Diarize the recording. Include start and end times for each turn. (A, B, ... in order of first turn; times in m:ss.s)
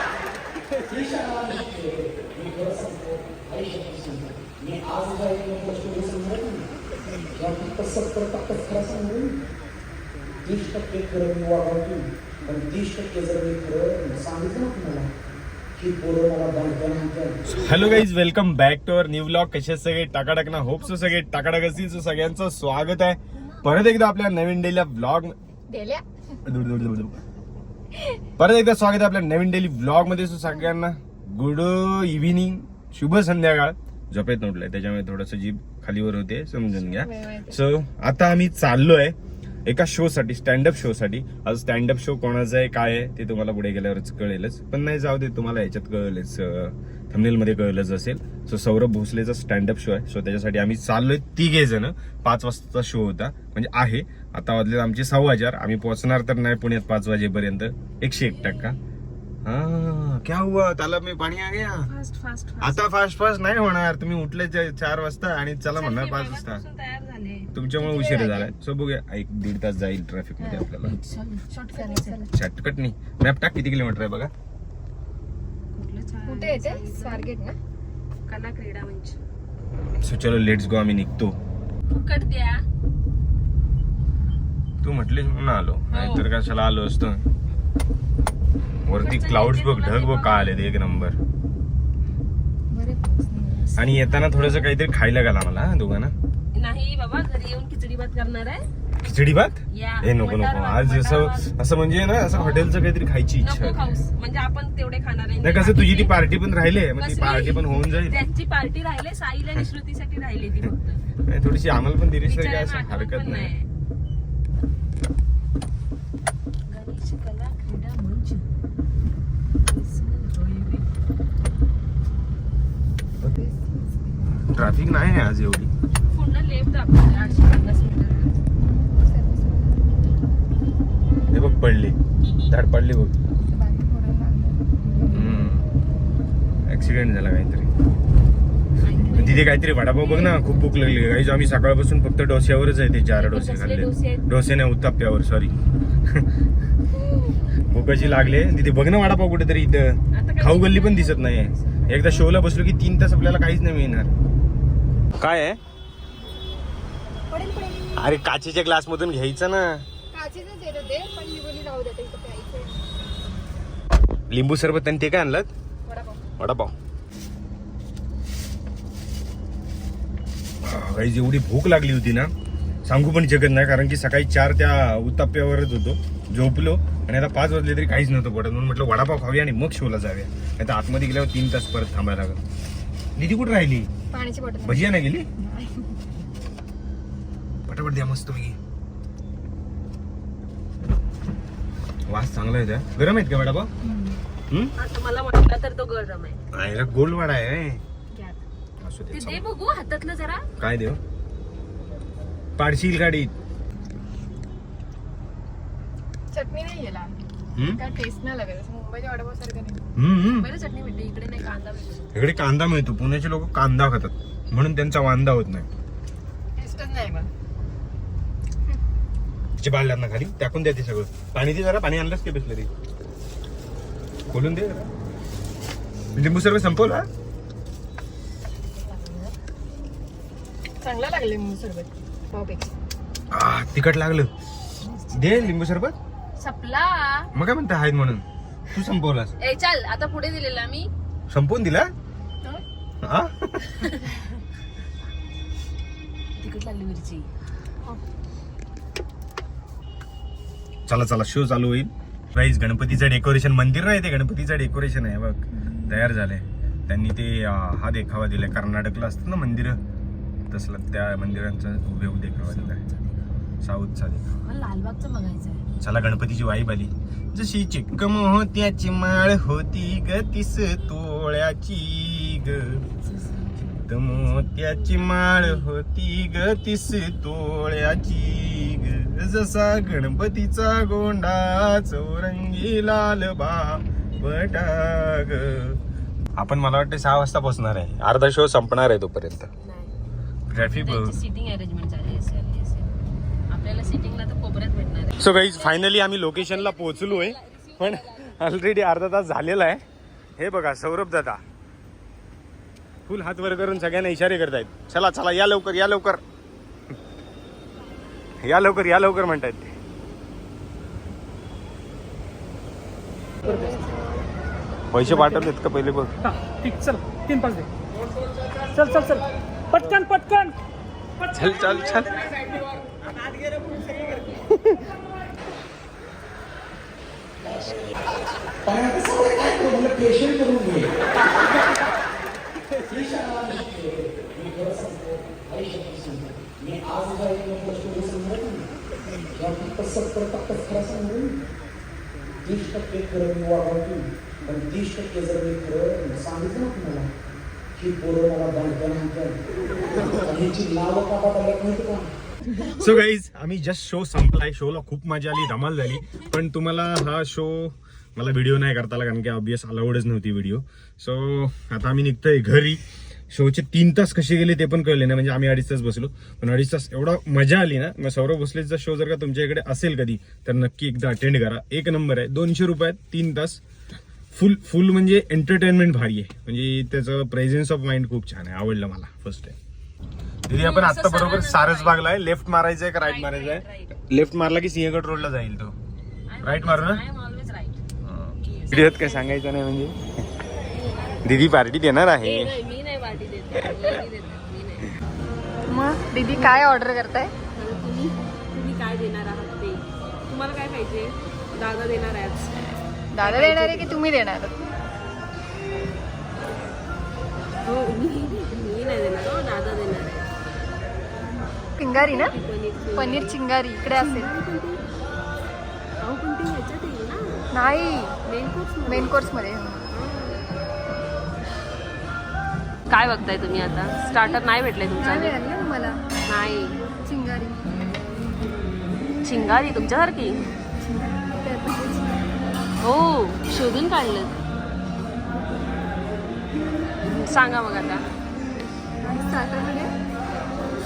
0:00.8-0:06.7 A
0:07.3-0:09.4 A
0:10.4-0:15.1 A
0:15.8-0:17.4 A
0:17.5-0:25.3 B
0:20.8-0:21.4 C
0:23.4-0:23.7 C
0:25.7-0:26.0 D
0:26.4-0:27.2 B
0:28.4-0:39.1 B
0:36.9-0:37.6 D
0:39.6-0:58.8 B
0:59.4-1:01.9 B
1:01.9-1:02.8 C
1:02.6-1:06.6 B
1:05.7-1:07.5 C
1:07.5-1:11.0 B
1:07.8-1:08.5 D
1:10.4-1:12.3 C
1:11.7-1:12.3 D
1:12.3-1:14.3 B
1:15.7-1:17.3 C
1:16.2-1:17.5 D
1:18.3-1:19.2 C
1:20.0-1:21.3 B
1:21.9-1:22.6 C
1:24.8-1:27.2 B
1:25.9-1:26.3 C
1:28.8-1:31.2 B
1:28.9-1:30.7 C
1:32.7-1:34.4 D
1:33.8-1:36.1 B
1:36.5-1:38.6 C
1:39.0-1:43.9 B
1:39.7-1:41.5 C
1:42.2-1:42.7 C
1:43.4-1:46.2 C
1:45.4-1:48.2 B
1:47.0-1:51.0 C
1:51.3-1:53.5 B
1:52.2-1:53.7 C
1:56.7-1:58.4 C
1:59.6-2:00.9 C
2:03.2-2:04.3 D
2:04.3-2:05.7 B
2:06.1-2:08.4 C
2:07.1-2:07.5 D
2:08.6-2:10.0 D
2:11.3-2:12.0 B
2:12.5-2:13.2 B
2:13.4-2:15.4 D
2:15.1-2:15.6 B
2:16.7-2:17.7 B
2:18.8-2:20.5 C
2:18.8-2:19.3 D
2:19.1-2:25.5 B
2:23.1-2:24.2 C
2:27.7-2:34.1 B
2:27.7-2:28.3 D
2:28.1-2:28.4 C
2:30.1-2:32.2 C
2:35.2-2:35.6 B
2:37.3-2:38.1 D
2:38.0-2:39.8 B
2:40.1-2:42.9 D
2:44.3-2:45.5 B
2:45.9-2:46.2 D
2:46.4-2:46.7 B
2:50.6-2:52.3 B
2:52.8-3:02.4 B
3:03.2-3:03.9 B
3:04.1-3:06.0 D
3:04.6-3:05.3 B
3:07.7-3:08.6 B
3:12.1-3:13.7 B
3:13.8-3:14.2 D
3:14.8-3:16.4 C
3:16.5-3:17.8 B
3:18.1-3:18.4 D
3:18.8-3:19.4 B
3:19.1-3:20.4 C
3:20.6-3:21.0 B
3:22.6-3:23.3 B
3:26.3-3:27.1 D
3:27.6-3:27.8 B
3:27.6-3:29.8 D
3:30.0-3:30.5 B
3:30.3-3:32.1 C
3:32.1-3:35.7 B
3:36.6-3:37.3 D
3:39.6-3:42.7 B
3:44.3-3:44.9 B
3:46.1-3:47.0 B
3:48.7-3:49.3 C
3:50.8-3:52.7 D
3:53.3-3:54.3 B
3:54.8-3:55.6 C
3:55.1-3:55.9 B
3:56.4-3:57.3 C
3:57.3-3:59.3 B
3:59.4-4:00.9 C
4:01.3-4:01.9 B
4:03.0-4:03.8 B
4:03.8-4:04.2 C
4:06.4-4:07.3 C
4:10.9-4:19.8 B
4:15.6-4:16.0 D
4:20.5-4:22.8 B
4:22.4-4:23.3 C
4:23.6-4:24.3 B
4:24.4-4:25.6 C
4:25.8-4:32.8 B
4:33.0-4:35.6 C
4:33.8-4:45.8 B
4:46.4-4:49.5 B
4:49.6-4:49.9 C
4:50.5-4:51.1 B
4:50.6-4:52.9 C
4:53.5-4:58.4 C
4:55.2-4:59.8 B
5:00.4-5:01.4 B
5:03.1-5:06.2 B
5:08.4-5:09.7 B
5:13.4-5:14.3 D
5:14.9-5:16.2 B
5:16.3-5:17.7 E
5:18.7-5:20.6 E
5:21.2-5:22.5 B
5:24.3-5:24.8 B
5:28.6-5:31.1 A
5:32.8-5:38.7 A
5:39.3-5:41.4 A
5:42.4-5:47.1 A
5:47.8-5:49.4 A
5:50.0-5:52.2 A
5:52.5-6:02.8 B
6:03.3-6:13.6 B
6:14.3-6:19.6 B
6:20.5-6:25.7 B
6:20.5-6:22.0 C
6:23.0-6:24.0 C
6:26.3-6:27.8 C
6:26.4-6:27.0 B
6:28.0-6:30.0 B
6:28.5-6:29.3 C
6:30.7-6:31.5 C
6:31.2-6:32.6 B
6:32.2-6:35.0 C
6:35.7-6:37.3 D
6:37.6-6:42.5 C
6:43.1-6:44.6 D
6:43.2-6:44.0 C
6:47.6-6:50.3 C
6:51.8-6:52.3 D
6:51.9-6:54.8 C
6:52.9-6:54.3 D
6:56.0-6:57.4 C
6:57.5-6:58.2 D
6:58.3-6:59.3 C
6:58.8-6:59.9 D
6:59.9-7:00.4 C
7:02.9-7:05.4 C
7:04.0-7:04.4 D
7:05.0-7:06.0 D
7:06.3-7:06.8 C
7:07.0-7:07.6 D
7:09.2-7:10.4 C
7:10.8-7:12.4 D
7:12.8-7:14.4 C
7:17.0-7:18.0 C
7:19.0-7:19.9 D